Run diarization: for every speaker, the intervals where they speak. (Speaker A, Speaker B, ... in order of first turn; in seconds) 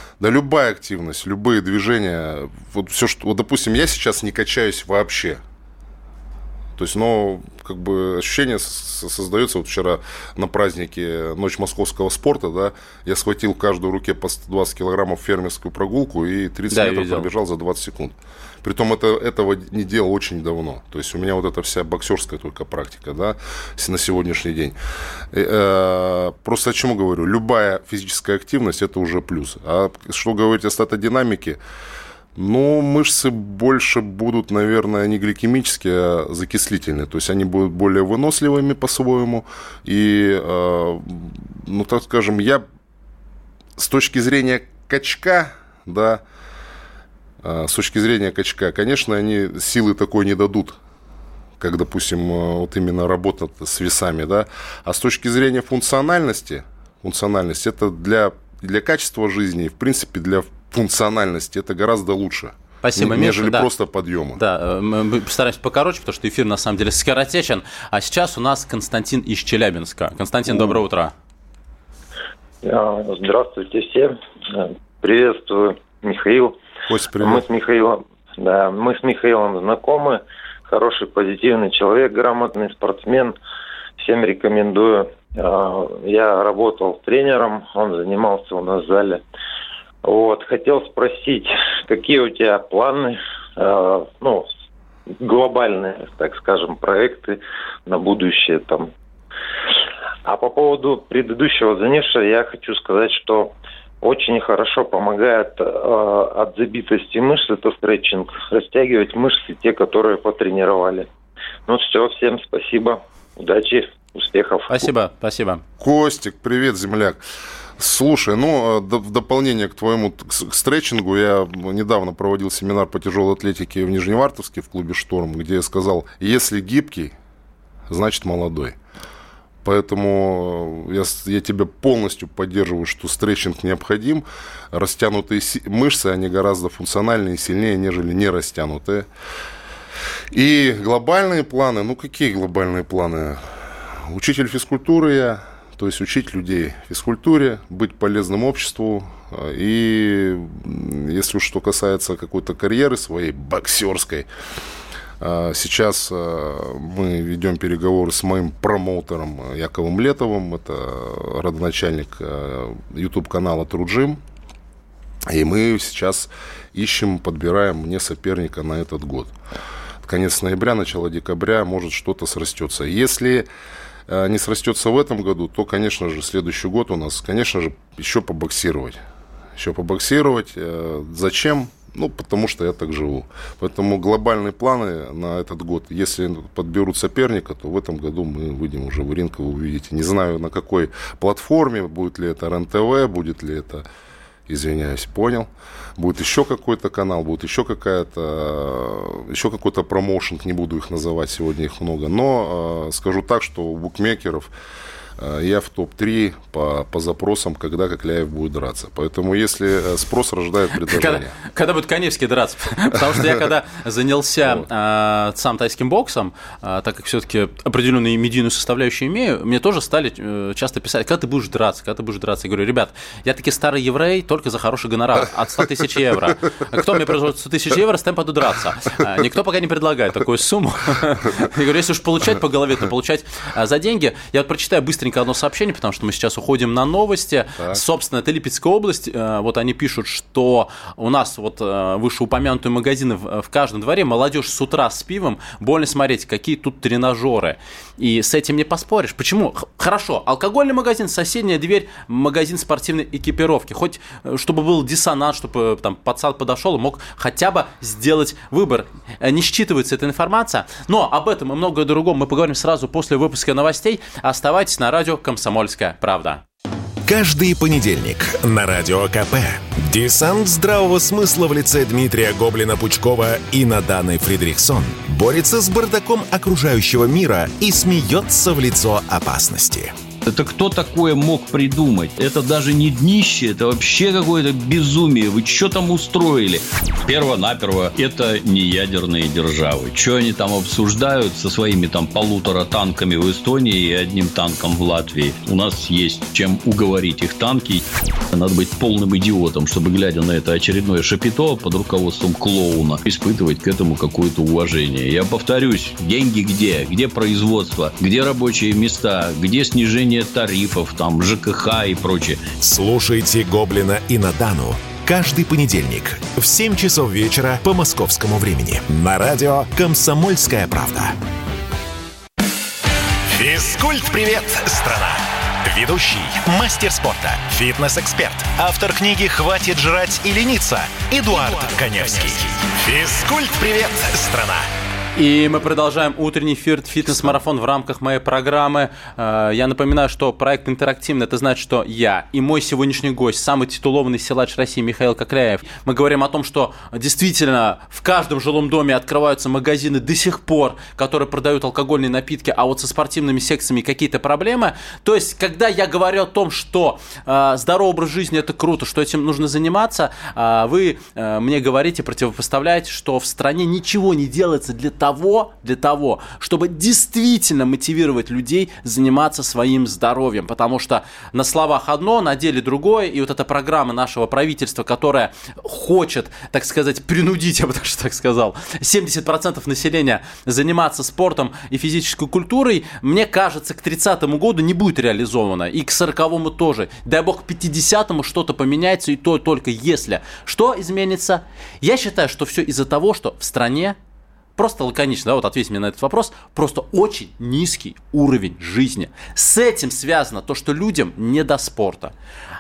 Speaker A: 0.2-5.4, 6.8-24.8, 25.3-31.6, 32.4-42.6, 43.8-46.2, 47.4-50.8, 51.6-64.4, 70.5-70.7, 76.9-77.5, 115.8-117.2, 117.8-127.2, 127.9-128.8, 129.6-139.1, 140.3-143.4, 144.0-154.3, 155.2-164.2, 165.3-169.3, 170.0-173.5, 174.1-179.0, 179.6-193.9, 194.5-204.5, 205.2-211.3
Speaker B: 16.7-17.3, 62.8-63.7, 64.4-71.1, 114.7-115.6, 210.8-266.4, 335.1-394.0, 394.6-402.1
Speaker C: 72.6-76.6, 77.2-83.3, 84.0-89.2, 90.0-94.5, 95.2-98.9, 100.2-111.1, 111.7-114.9
Speaker D: 267.1-279.9, 312.6-321.2
Speaker E: 280.3-312.6
Speaker F: 323.3-334.7